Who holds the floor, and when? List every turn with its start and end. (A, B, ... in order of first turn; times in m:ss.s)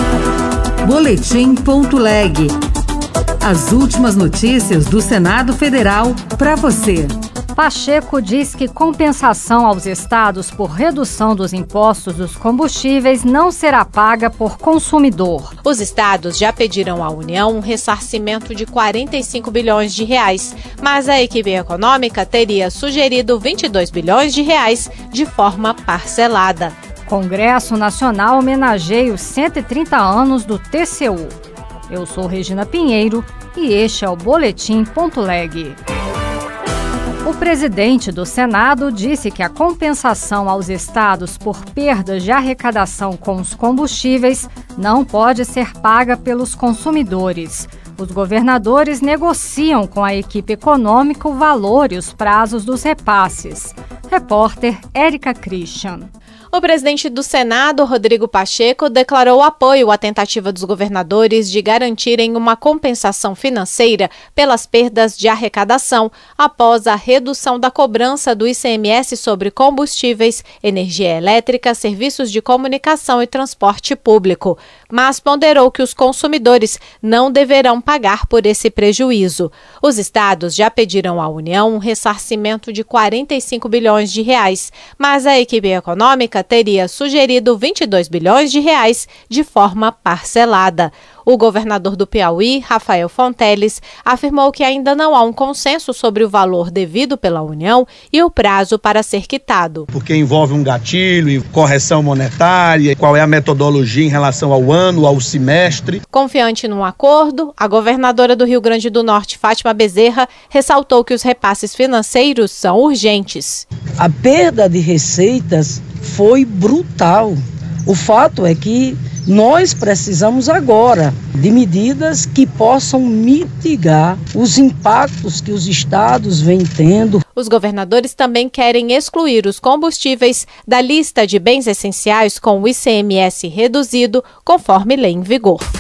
0:00.8-0:02.6 A
0:03.4-0:07.2 A
0:07.6-0:15.5 B
0:15.6-0:26.8 C
0:27.1-0:31.4 B
0:31.9-0:35.8 B
0:37.2-0:56.1 B
0:56.5-1:39.9 C
1:39.9-1:46.0 D
1:46.1-1:53.6 C
1:54.0-2:07.2 E
2:07.4-2:15.7 C